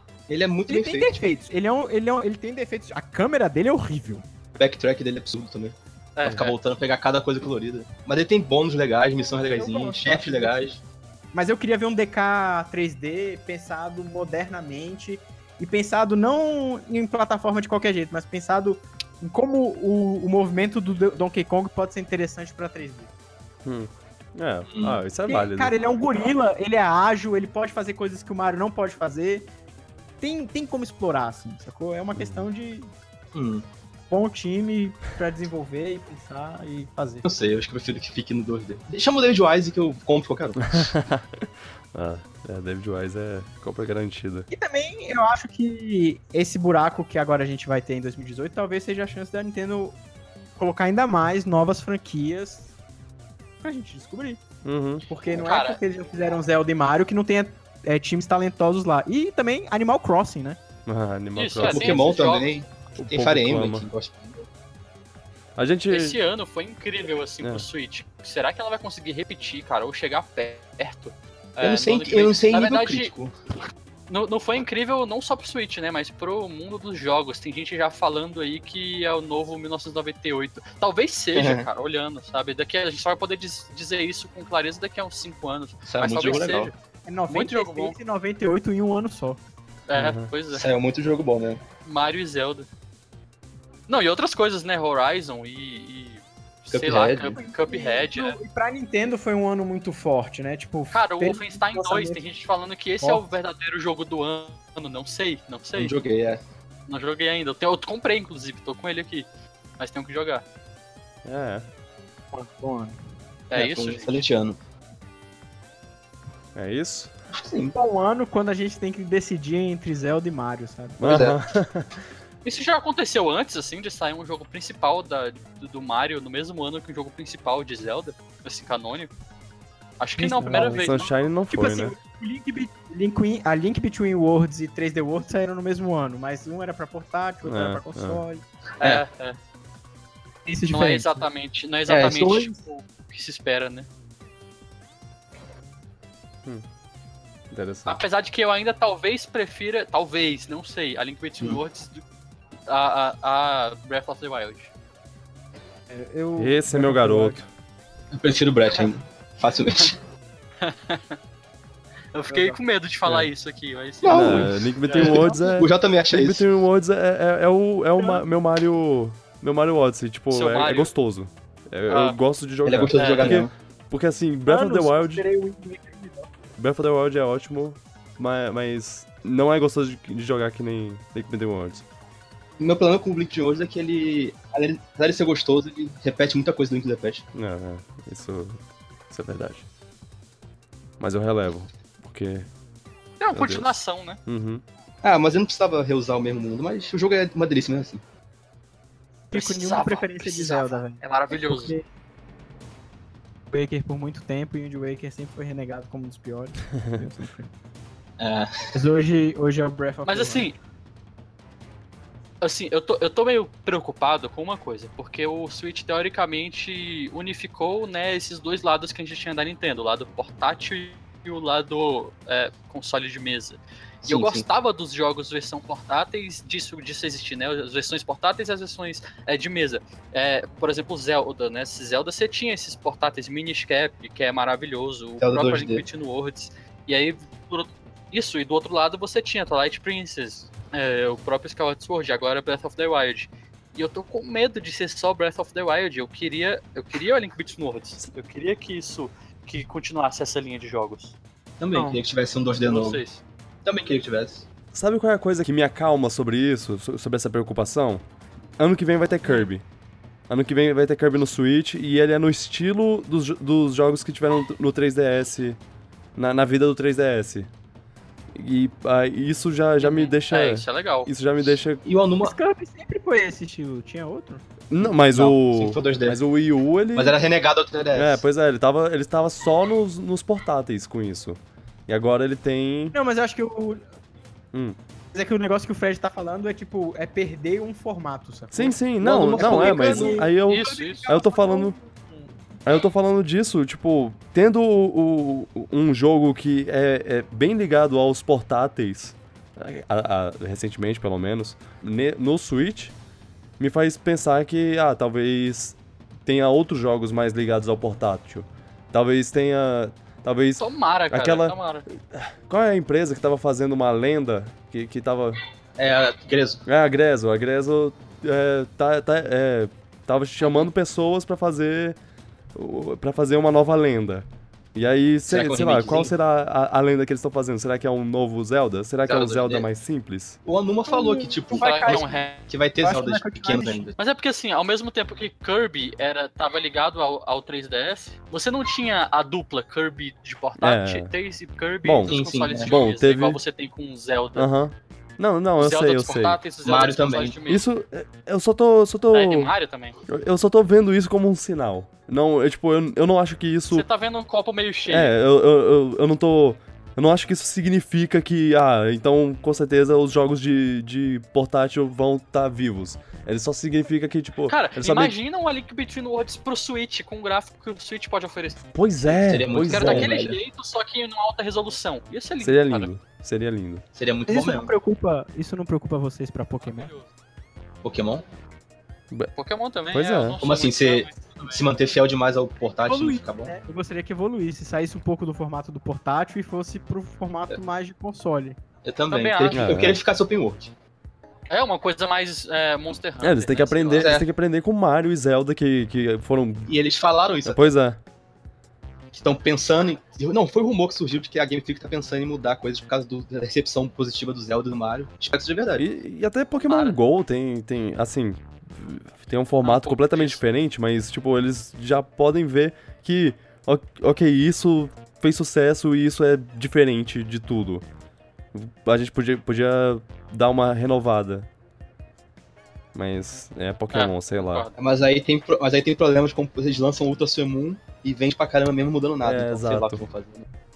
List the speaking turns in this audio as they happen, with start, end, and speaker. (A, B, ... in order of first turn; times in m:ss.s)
0:00.3-0:01.2 A
0:00.7-0:04.2 B
0:04.6-0:10.8 A
0:06.2-0:06.6 C
0:09.2-0:10.7 B
0:11.3-0:23.1 B
0:23.6-0:25.7 D
0:24.7-0:25.0 A
0:25.2-0:29.5 B
0:30.2-0:32.9 B
0:32.1-0:32.4 D
0:33.3-0:33.6 A
0:34.1-0:37.2 B
0:37.2-0:40.9 A
0:40.7-0:44.5 D
0:44.5-0:50.0 B
0:50.6-0:52.7 B
0:53.6-0:54.4 B
0:54.6-0:55.0 D
0:55.1-1:00.6 B
0:55.3-0:55.8 C
1:00.8-1:02.0 D
1:01.4-1:02.5 C
1:01.6-1:04.5 A
1:03.0-1:03.8 D
1:05.6-1:06.2 D
1:05.9-1:13.1 C
1:11.6-1:13.3 A
1:14.1-1:26.7 C
1:21.3-1:21.7 A
1:25.8-1:26.7 A
1:27.0-1:29.4 B
1:27.3-1:28.0 C
1:29.9-1:30.7 C
1:29.9-1:30.3 D
1:30.5-1:31.6 A
1:31.8-1:32.7 C
1:33.9-1:38.4 C
1:36.7-1:37.4 A
1:37.3-1:42.2 B
1:40.9-1:46.0 C
1:43.0-1:43.3 B
1:45.7-1:46.4 A
1:46.9-1:49.2 C
1:49.8-1:50.4 C
1:51.2-1:51.6 D
1:52.3-1:53.0 B
1:53.5-1:54.2 C
1:53.5-1:54.6 A
1:56.6-1:57.1 D
1:57.3-1:57.8 A
1:57.7-2:01.0 B
2:01.0-2:01.9 D
2:01.0-2:01.4 A
2:02.4-2:09.1 C
2:10.0-2:11.1 C
2:10.2-2:18.4 B
2:10.5-2:12.0 D
2:17.4-2:18.2 D
2:18.8-2:19.4 C
2:20.4-2:21.2 B
2:20.7-2:23.9 C
2:21.9-2:22.6 B
2:27.5-2:28.0 D
2:27.8-2:32.0 C
2:32.7-2:34.7 C
2:35.9-2:37.4 B
2:36.4-2:37.5 D
2:38.1-2:40.0 A
2:40.6-2:41.2 C
2:42.1-2:45.3 C
2:42.3-2:42.6 B
2:44.0-2:46.4 A
2:44.1-2:55.2 D
2:48.0-2:48.2 B
2:50.3-2:50.9 C
2:51.9-2:52.2 C
2:52.6-2:53.5 A
2:52.9-2:53.4 C
2:54.5-2:56.3 B
2:56.6-3:01.8 D
3:02.6-3:07.2 A
3:07.3-3:09.7 D
3:11.0-3:12.5 D
3:13.2-3:14.2 C
3:13.3-3:13.7 D
3:14.2-3:14.6 D
3:15.0-3:18.0 A
3:19.3-3:21.8 B
3:19.3-3:21.8 C
3:23.5-3:27.5 B
3:28.2-3:28.7 A
3:28.7-3:30.5 B
3:30.0-3:30.6 C
3:32.4-4:11.2 C
3:44.0-3:44.4 A
3:55.2-3:55.8 A
4:11.6-4:13.0 A
4:11.7-4:12.0 B
4:12.6-4:13.2 C
4:13.6-4:14.4 A
4:14.7-4:18.0 D
4:18.6-4:19.6 D
4:20.3-4:25.6 D
4:26.2-4:27.5 D
4:28.3-4:31.8 D
4:29.8-4:31.1 C
4:31.8-4:32.3 A
4:32.2-4:34.4 B
4:34.7-4:37.2 D
4:35.1-4:36.2 A
4:36.9-4:38.2 A
4:37.9-4:43.0 D
4:42.9-4:43.8 B
4:45.1-4:52.3 B
4:48.5-4:51.7 D
4:49.0-4:50.2 A
4:50.5-4:51.0 C
4:52.6-5:02.9 D
5:03.6-5:15.4 D
5:10.6-5:11.8 C
5:15.8-5:16.6 A
5:16.6-5:22.0 D
5:20.4-5:20.7 C
5:22.5-5:30.4 D
5:25.3-5:26.1 A
5:29.0-5:29.7 A
5:30.4-5:33.9 A
5:30.9-5:32.3 B
5:31.5-5:32.4 C
5:32.8-5:33.9 B
5:34.0-5:44.5 C
5:40.6-5:41.1 D
5:41.8-5:43.4 D
5:42.1-5:42.7 A
5:44.4-5:46.4 D
5:45.6-5:47.6 C
5:46.6-5:47.4 A
5:47.5-5:49.5 D
5:49.1-5:50.0 C
5:50.1-5:53.8 D
5:53.7-5:55.1 C
5:54.9-6:05.1 D
6:04.5-6:08.6 C
6:08.7-6:10.2 D
6:09.2-6:10.4 A
6:09.6-6:12.9 C
6:12.4-6:13.8 D
6:13.9-6:14.7 A
6:14.3-6:16.9 B
6:16.6-6:17.1 C
6:17.8-6:18.2 A
6:19.4-6:21.7 C
6:19.9-6:20.4 D
6:20.4-6:23.5 A
6:22.8-6:28.6 B
6:28.8-6:30.7 A
6:29.1-6:29.9 C
6:29.5-6:30.0 D
6:31.5-6:34.2 C
6:33.2-6:36.7 D
6:33.9-6:34.3 A
6:36.7-6:37.7 A
6:37.4-6:38.0 D
6:39.1-6:45.8 A
6:45.8-6:57.8 D
6:46.7-6:47.0 C
6:49.6-6:50.4 C
6:58.5-7:01.5 D
7:02.9-7:04.7 D
7:03.9-7:04.7 C
7:04.8-7:10.4 A
7:09.2-7:10.0 D